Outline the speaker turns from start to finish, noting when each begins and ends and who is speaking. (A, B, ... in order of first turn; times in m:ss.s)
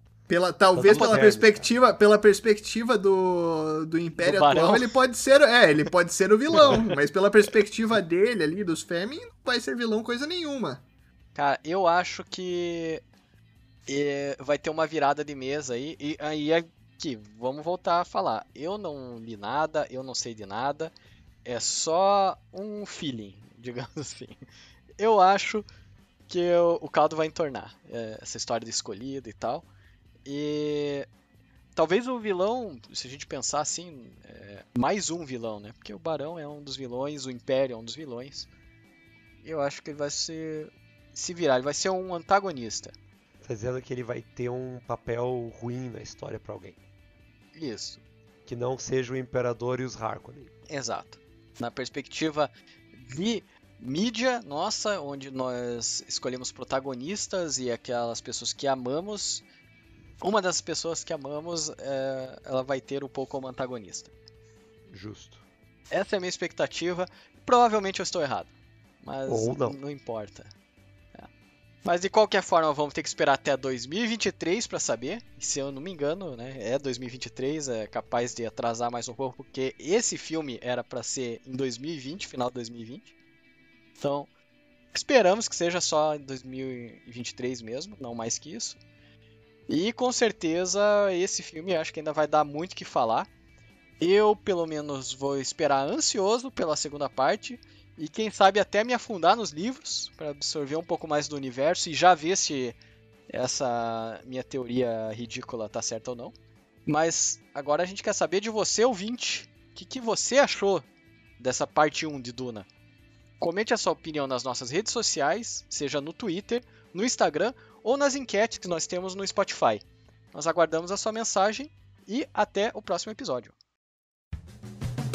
0:00.3-0:10.8 A
0:00.8-0:01.7 B
0:00.9-0:01.3 C
0:04.2-0:04.9 C
0:11.4-0:13.0 C
0:13.9-0:20.9 C
0:21.4-0:24.4 C
0:25.0-0:25.7 C
0:26.3-0:29.7 C
0:30.2-0:31.1 C
0:31.8-0:38.5 C
0:39.4-0:43.0 C
0:43.4-0:46.8 B
0:47.6-0:48.0 C
0:48.5-0:50.5 B
0:50.7-0:59.4 C
1:00.2-1:04.1 C
1:04.9-1:05.4 B
1:05.9-1:08.5 C
1:09.0-1:10.5 C
1:09.3-1:09.8 B
1:11.8-1:23.1 C
1:24.0-1:24.3 C
1:24.9-1:28.8 C
1:29.7-1:33.3 C
1:34.0-1:42.8 C
1:43.3-1:46.3 C
1:46.9-1:50.9 C
1:51.4-1:52.7 C
1:53.4-2:03.5 C